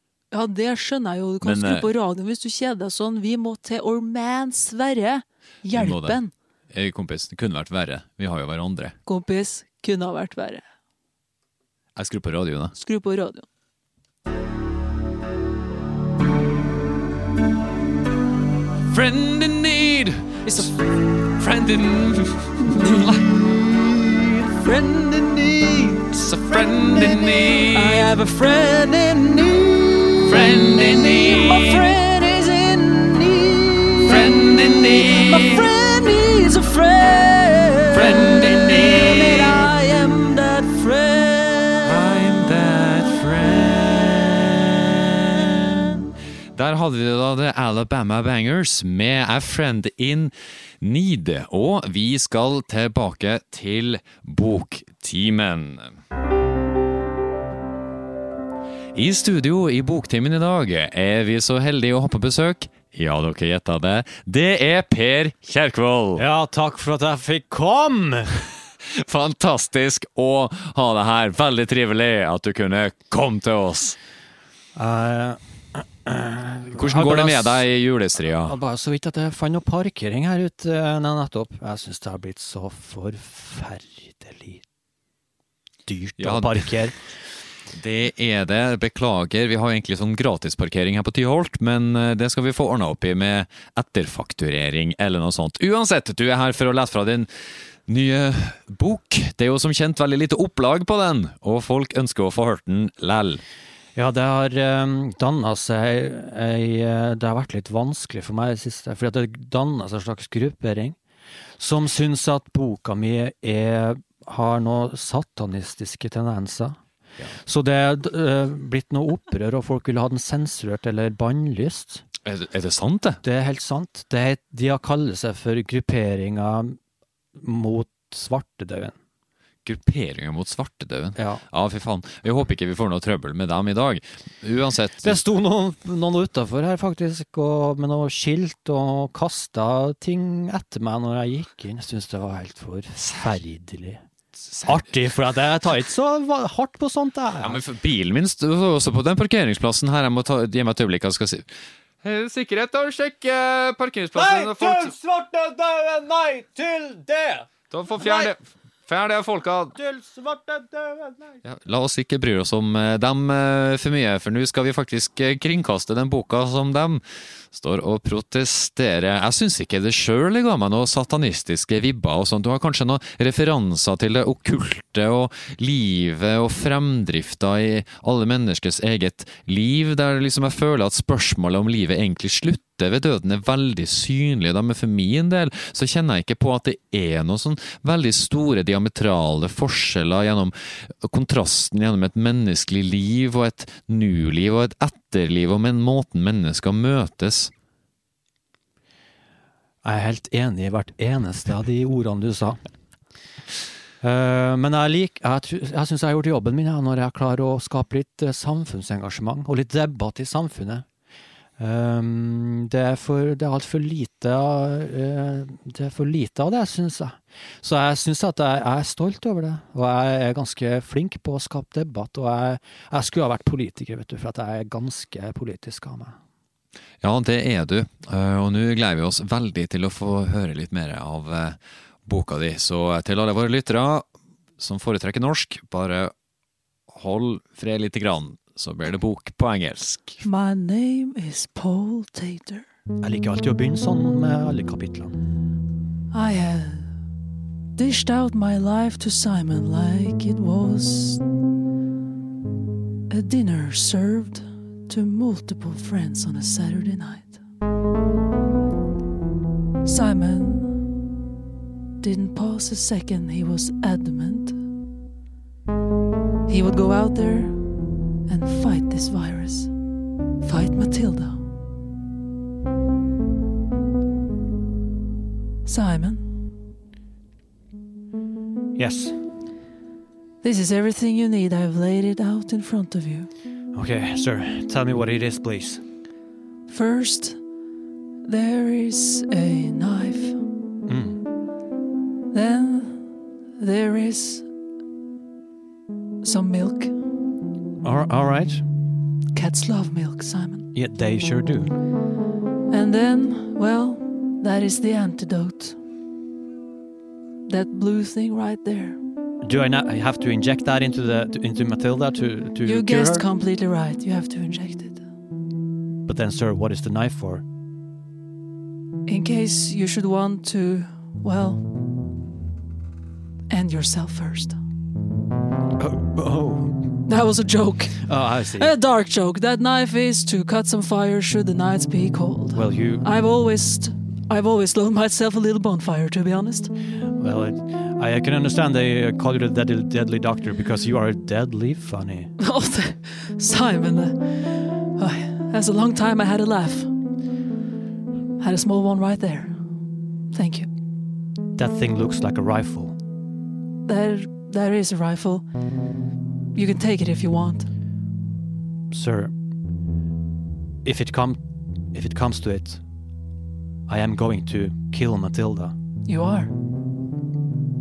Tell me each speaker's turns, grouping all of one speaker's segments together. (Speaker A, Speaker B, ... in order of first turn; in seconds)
Speaker A: 0.3-6.3, 9.1-10.6, 12.7-13.4, 20.4-20.7, 24.7-25.2, 27.5-41.9, 240.2-242.6, 246.1-246.9, 247.8-251.2, 253.1-257.4, 259.8-260.8, 262.0-264.6, 266.5-267.6, 268.3-269.7, 270.4-271.4, 275.6-276.2, 280.4-283.3, 286.7-287.4, 288.2-290.4, 292.3-293.0, 293.6-294.4, 296.2-296.9, 299.3-300.6, 302.7-305.8, 307.5-309.0, 312.6-315.0, 319.1-321.6, 323.5-324.6, 327.1-336.7, 342.4-346.9, 348.4-349.5, 350.3-350.7, 353.8-355.4, 356.5-357.7, 366.1-366.5
Speaker B: 1.4-1.9, 5.7-6.2, 6.7-8.9, 11.9-12.7, 18.9-20.7, 21.4-23.4, 26.1-28.1, 30.2-31.9, 34.0-35.7, 37.9-39.7, 41.8-45.9, 46.5-55.9, 58.9-66.2, 68.9-74.0, 76.8-78.5, 86.2-86.8, 87.7-97.3, 97.9-103.4, 122.2-123.2, 129.6-135.2, 144.4-144.8, 147.4-151.5, 152.0-154.9, 157.7-159.7, 161.4-167.0, 167.5-197.5, 227.0-234.1, 234.6-236.1, 236.9-240.2
Speaker C: 24.4-25.9, 26.5-27.5, 66.2-68.4, 74.7-77.7, 78.4-84.6, 85.8-87.0, 103.9-111.0, 111.6-116.8, 117.3-122.0, 123.2-126.8, 127.4-128.9, 131.2-131.4, 135.0-144.0, 144.7-147.6, 154.1-157.5, 158.0-158.3, 159.7-161.4, 199.8-202.6, 204.0-210.8, 211.6-226.1, 243.0-245.1, 278.7-279.2, 283.7-285.8, 290.9-291.2, 297.8-298.6, 300.7-301.7, 309.4-313.2, 316.1-317.4, 325.8-326.8, 328.0-328.7, 332.5-333.1, 337.1-342.3, 351.5-352.9, 358.9-359.3, 360.8-361.4, 361.9-362.8, 363.9-365.7